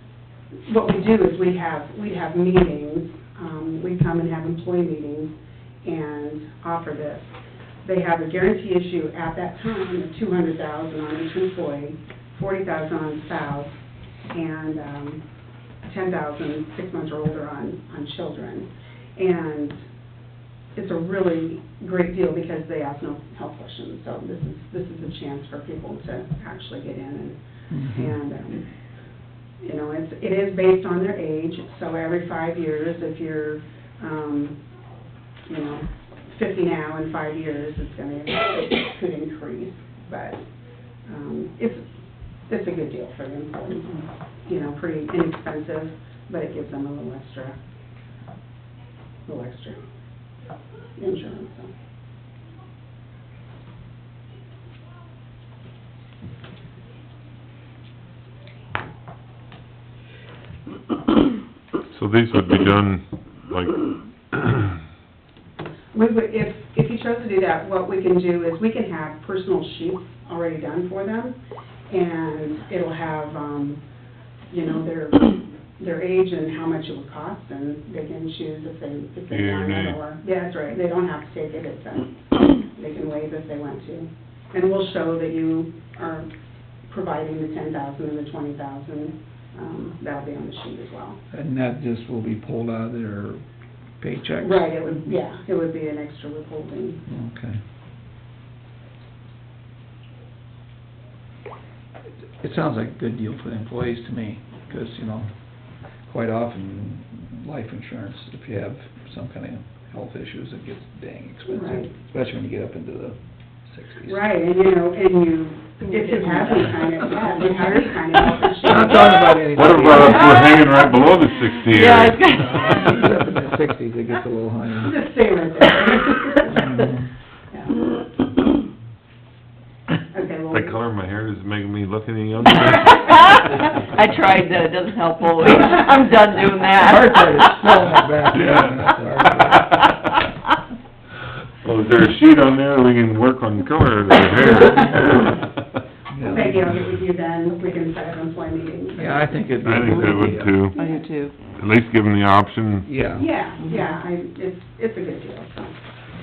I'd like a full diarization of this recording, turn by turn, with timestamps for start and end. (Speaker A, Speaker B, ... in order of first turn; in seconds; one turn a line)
Speaker A: 0.7-5.3
Speaker A: 5.8-7.3
Speaker A: 7.8-13.8
Speaker A: 14.3-15.2
Speaker A: 15.8-19.8
Speaker A: 20.7-28.7
Speaker B: 27.7-28.2
Speaker A: 29.6-34.6
Speaker A: 35.5-40.4
Speaker A: 41.1-41.8
Speaker A: 42.5-47.6
Speaker A: 49.3-49.8
Speaker A: 51.0-51.7
Speaker C: 61.9-64.7
Speaker A: 65.9-71.3
Speaker A: 71.9-73.8
Speaker A: 74.5-86.3
Speaker C: 79.3-80.0
Speaker A: 86.9-91.2
Speaker B: 91.3-93.4
Speaker B: 94.0-95.1
Speaker A: 94.4-97.0
Speaker B: 97.1-97.6
Speaker B: 102.3-105.3
Speaker B: 106.1-114.2
Speaker A: 111.5-111.9
Speaker A: 114.0-119.4
Speaker D: 115.8-116.6
Speaker B: 117.6-120.5
Speaker C: 119.5-122.3
Speaker D: 121.7-123.1
Speaker B: 122.5-125.0
Speaker A: 124.7-126.9
Speaker B: 126.4-127.1
Speaker A: 127.5-127.9
Speaker A: 130.1-130.8
Speaker C: 130.5-133.6
Speaker D: 132.9-137.6
Speaker B: 136.7-139.8
Speaker C: 138.3-139.0
Speaker C: 139.5-139.9
Speaker C: 141.6-145.5
Speaker B: 146.1-146.7
Speaker A: 146.2-149.3
Speaker B: 148.9-150.6
Speaker C: 149.6-150.8
Speaker D: 149.9-151.4
Speaker A: 150.8-151.0
Speaker C: 151.4-152.9
Speaker B: 152.8-153.3
Speaker A: 153.1-155.8
Speaker D: 153.6-153.9